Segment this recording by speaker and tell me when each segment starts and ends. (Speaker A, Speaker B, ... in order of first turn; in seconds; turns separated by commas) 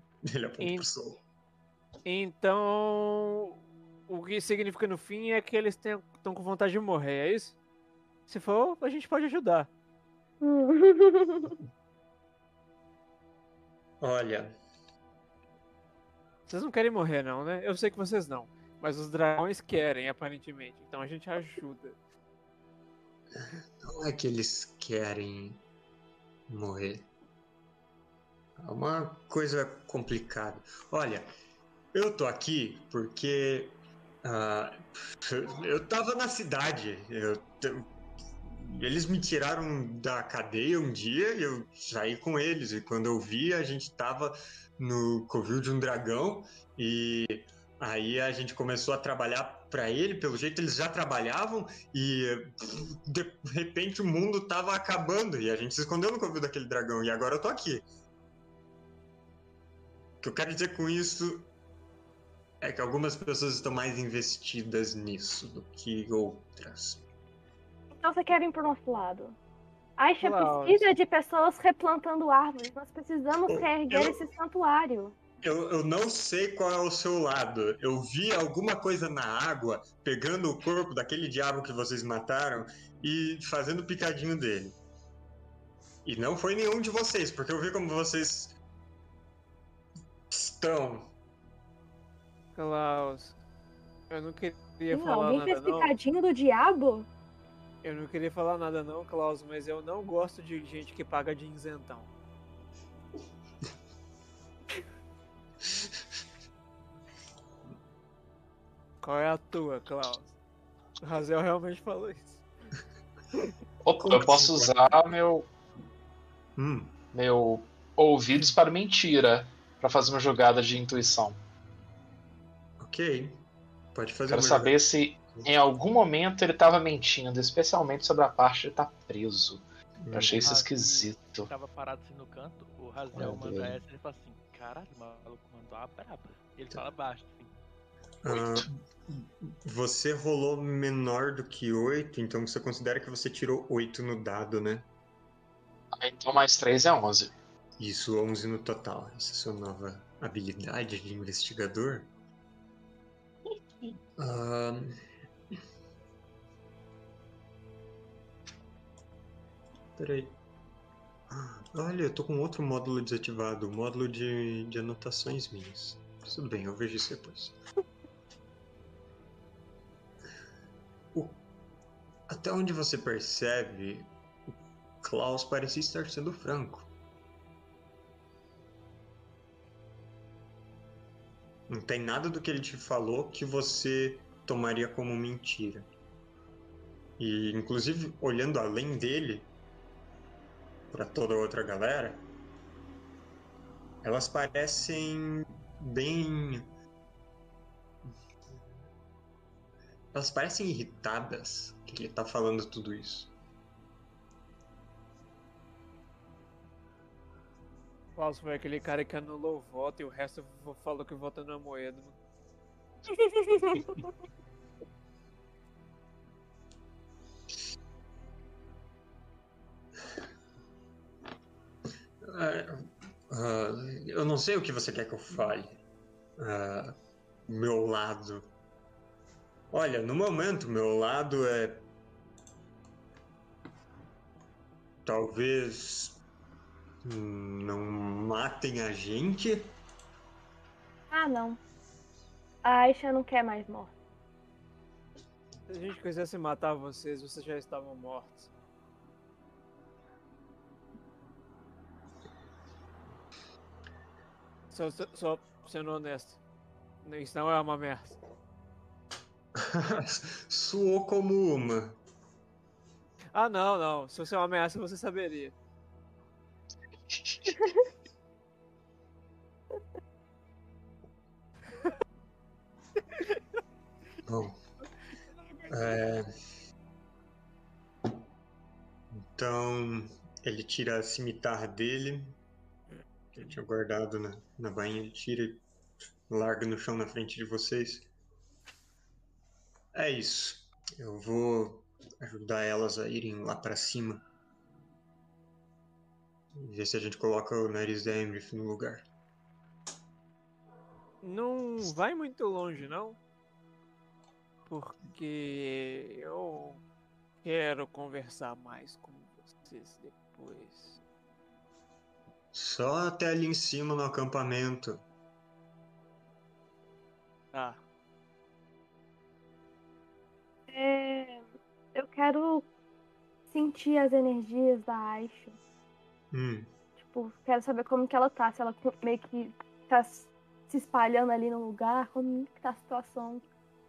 Speaker A: 0.2-1.2, Speaker B: 0.6-0.9, Speaker B: 2.0-7.5, Speaker B: 8.3-9.7, Speaker C: 10.4-11.6, Speaker A: 14.0-14.6, Speaker B: 16.5-22.0, Speaker A: 23.3-25.6, Speaker A: 26.5-27.1, Speaker A: 28.6-31.3, Speaker A: 31.9-37.9, Speaker A: 38.4-57.9, Speaker A: 60.2-61.5, Speaker A: 62.6-67.0, Speaker C: 68.0-69.3, Speaker C: 70.0-75.1, Speaker B: 70.2-70.9, Speaker A: 73.5-74.2, Speaker A: 75.4-84.8, Speaker A: 86.0-88.5, Speaker A: 90.3-91.1, Speaker B: 92.5-93.3, Speaker B: 94.1-95.9, Speaker C: 94.9-97.1, Speaker B: 97.8-102.1, Speaker B: 109.0-110.3, Speaker B: 111.0-112.4, Speaker D: 113.8-115.5, Speaker A: 114.0-114.8, Speaker A: 116.6-116.9, Speaker D: 117.1-121.4, Speaker A: 122.8-124.7, Speaker D: 124.3-131.5, Speaker A: 130.0-130.5, Speaker E: 130.4-137.5, Speaker D: 133.1-133.8, Speaker A: 138.2-144.9, Speaker D: 138.3-138.6, Speaker D: 145.9-147.3, Speaker A: 147.8-152.1, Speaker A: 154.2-154.9, Speaker A: 160.0-160.4, Speaker A: 161.3-167.6, Speaker A: 171.1-171.4, Speaker A: 172.3-174.1, Speaker A: 175.0-176.9, Speaker A: 181.7-185.9, Speaker A: 187.2-189.5, Speaker A: 190.9-192.3, Speaker A: 194.0-196.7, Speaker A: 200.1-203.3, Speaker B: 208.2-212.2, Speaker C: 213.1-213.8, Speaker A: 222.2-225.8, Speaker A: 226.4-226.9, Speaker A: 227.5-228.5, Speaker A: 229.7-231.9, Speaker A: 235.0-236.2, Speaker A: 237.0-239.7, Speaker C: 241.1-241.6, Speaker C: 242.6-243.9, Speaker B: 245.7-248.5, Speaker B: 254.7-256.4, Speaker B: 257.0-258.2, Speaker A: 259.6-262.0, Speaker B: 263.3-265.5, Speaker A: 274.2-274.6, Speaker B: 275.4-275.9, Speaker A: 275.7-276.3, Speaker A: 279.1-282.4, Speaker A: 283.3-285.6, Speaker A: 286.3-288.1, Speaker A: 289.9-294.2, Speaker A: 296.6-299.0, Speaker B: 301.2-303.2, Speaker B: 304.6-306.8, Speaker B: 307.4-311.0, Speaker A: 312.5-315.0, Speaker B: 317.5-317.8, Speaker C: 320.7-322.7, Speaker C: 323.5-325.6, Speaker A: 326.3-326.7, Speaker C: 327.0-333.4